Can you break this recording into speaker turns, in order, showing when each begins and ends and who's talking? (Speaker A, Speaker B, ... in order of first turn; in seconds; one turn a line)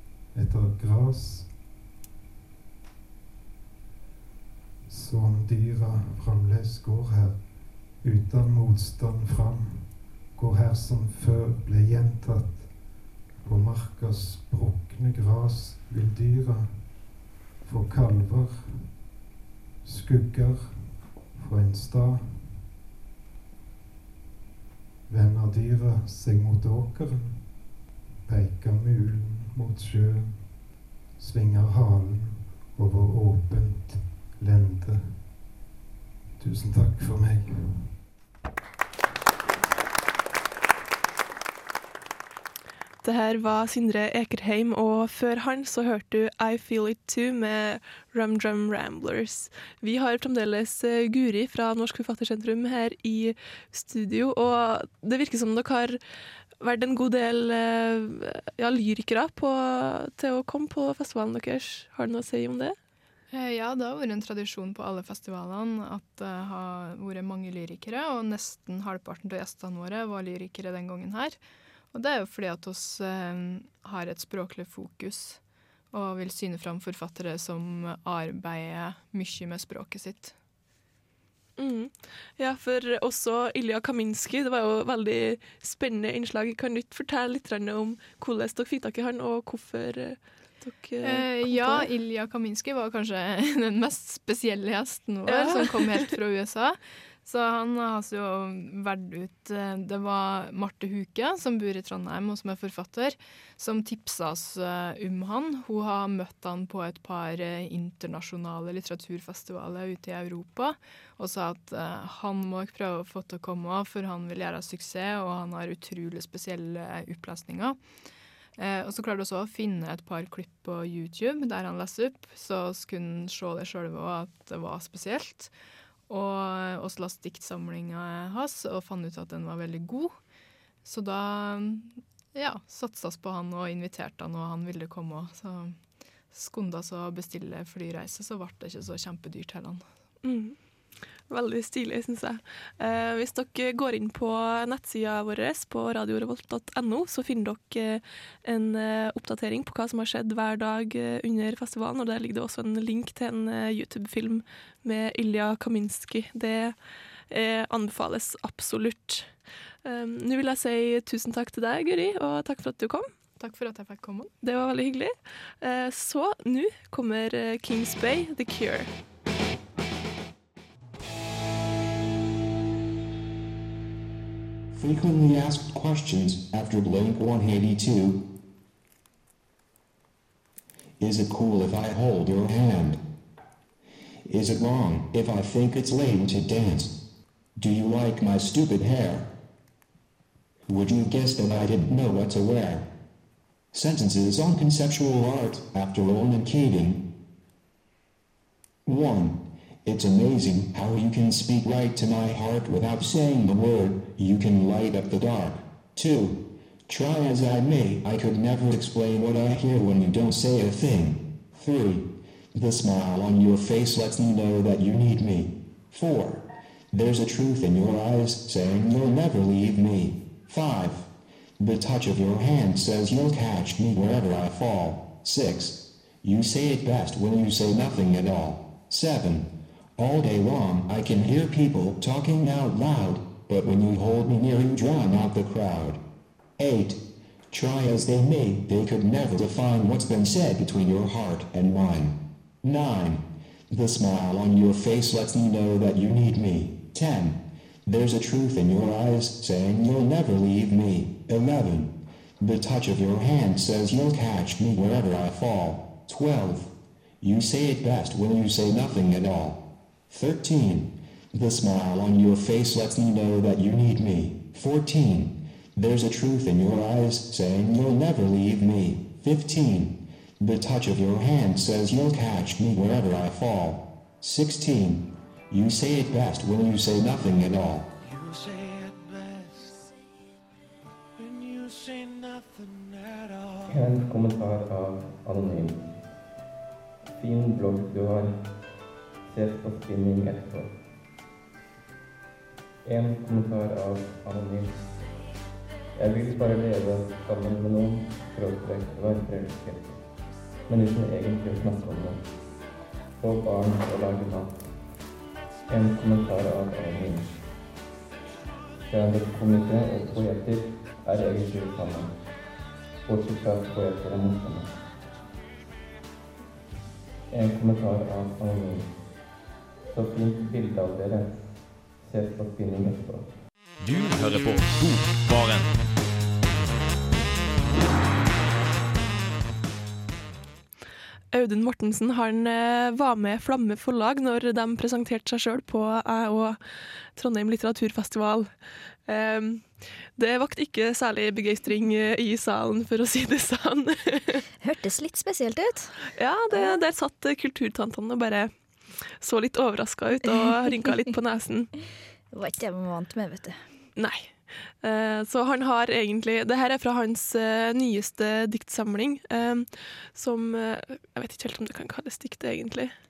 Speaker A: 0.3-1.5
Speaker A: 4.9-7.4
Speaker A: 8.0-12.7
Speaker A: 13.4-16.9
Speaker A: 17.6-18.9
Speaker A: 19.8-22.6
Speaker A: 25.1-27.5
Speaker A: 28.3-30.5
Speaker A: 31.2-35.2
Speaker A: 36.4-37.9
Speaker B: 43.0-56.0
Speaker B: 56.6-62.8
Speaker C: 63.3-71.4
Speaker C: 71.9-75.4
Speaker C: 75.9-80.3
Speaker B: 81.6-91.9
Speaker C: 91.0-117.8
Speaker B: 95.3-96.0
Speaker C: 118.6-125.5
Speaker C: 126.1-130.2
Speaker C: 130.8-135.8
Speaker C: 136.3-139.8
Speaker B: 140.2-140.6
Speaker B: 141.3-156.8
Speaker B: 157.3-159.3
Speaker B: 159.8-163.1
Speaker C: 163.4-164.3
Speaker B: 164.4-168.9
Speaker D: 174.7-178.2
Speaker D: 181.0-183.0
Speaker D: 184.3-186.9
Speaker D: 187.6-189.3
Speaker D: 190.7-192.9
Speaker D: 193.7-197.0
Speaker D: 198.9-221.1
Speaker D: 221.6-236.0
Speaker D: 236.6-277.9
Speaker E: 278.0-279.9
Speaker E: 281.2-283.9
Speaker F: 283.7-286.0
Speaker F: 287.1-288.6
Speaker F: 289.3-290.9
Speaker F: 292.9-294.9
Speaker F: 296.0-300.0
Speaker F: 300.7-302.2
Speaker F: 303.2-304.8
Speaker F: 305.7-307.4
Speaker F: 308.9-312.2
Speaker F: 313.1-314.8
Speaker F: 317.3-319.0
Speaker F: 319.9-323.4
Speaker G: 323.8-325.8
Speaker B: 331.3-336.6
Speaker B: 337.1-338.5
Speaker B: 339.1-344.4
Speaker H: 344.6-346.0
Speaker B: 346.1-348.5
Speaker H: 346.5-346.8
Speaker B: 349.2-351.7
Speaker H: 352.3-353.6
Speaker B: 354.0-362.9